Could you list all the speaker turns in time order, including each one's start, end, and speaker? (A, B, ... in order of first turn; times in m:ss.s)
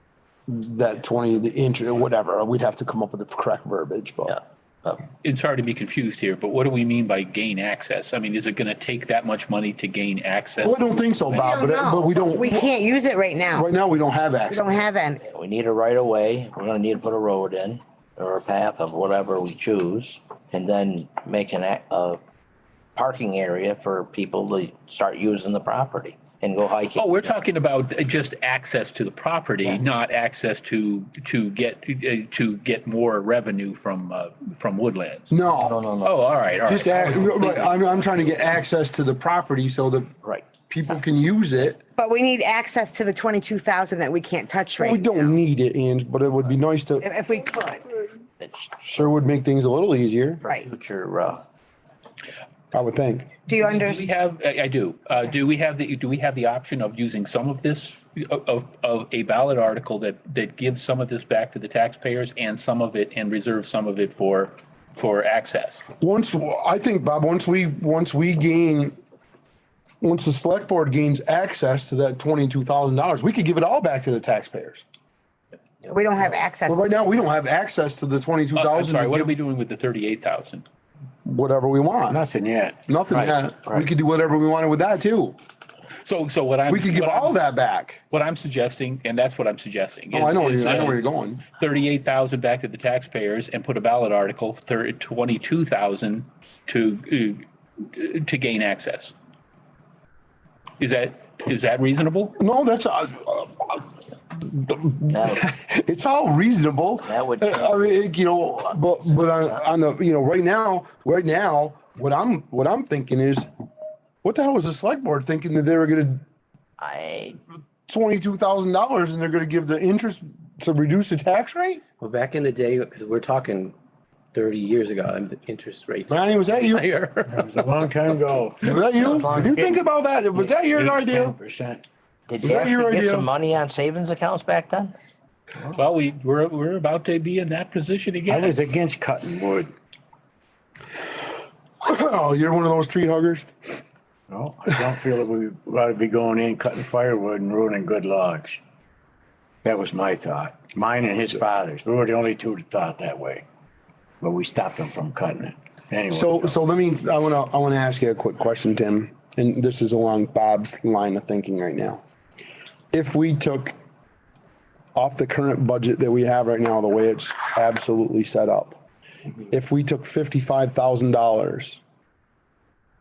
0:00.5-0:04.4 A
0:04.3-0:05.0 B
0:05.2-0:11.5 C
0:10.6-0:12.7 A
0:11.3-0:13.7 D
0:13.5-0:14.8 A
0:14.5-0:15.2 D
0:15.2-0:22.2 B
0:23.0-0:27.3 B
0:26.9-0:35.3 C
0:35.3-0:35.8 A
0:35.5-0:36.2 B
0:36.0-0:37.7 C
0:36.6-0:40.1 A
0:37.0-0:38.3 B
0:40.7-0:41.8 A
0:42.0-0:45.1 D
0:44.8-0:47.1 A
0:47.0-0:47.9 D
0:48.4-0:48.7 B
0:48.8-0:50.4 A
0:50.4-0:51.4 B
0:52.7-0:53.3 A
0:53.4-0:54.0 D
0:53.6-1:05.8 C
1:06.0-1:09.0 A
1:10.0-1:14.8 A
1:15.9-1:16.9 D
1:16.6-1:19.3 A
1:18.5-1:20.6 C
1:21.2-1:22.2 A
1:22.1-1:22.8 E
1:22.8-1:25.4 A
1:23.1-1:23.9 B
1:26.0-1:27.4 C
1:26.7-1:28.0 A
1:28.1-1:39.1 C
1:30.1-1:31.4 A
1:40.8-1:42.4 C
1:42.4-1:53.5 A
1:45.1-1:45.5 B
1:47.0-1:47.9 B
1:49.2-1:49.6 B
1:54.2-1:56.2 A
1:56.8-1:57.4 B
1:57.9-2:01.8 A
2:02.0-2:03.8 F
2:04.3-2:07.3 F
2:06.1-2:06.9 A
2:07.3-2:11.8 E
2:08.6-2:11.4 A
2:09.1-2:09.5 B
2:12.3-2:14.9 B
2:12.4-2:13.3 A
2:15.7-2:18.6 C
2:18.3-2:19.7 E
2:21.8-2:23.5 A
2:24.3-2:28.6 E
2:29.6-2:33.4 E
2:34.2-2:36.6 E
2:36.1-2:42.0 A
2:42.9-2:43.7 A
2:44.9-2:48.8 A
2:49.5-2:51.8 A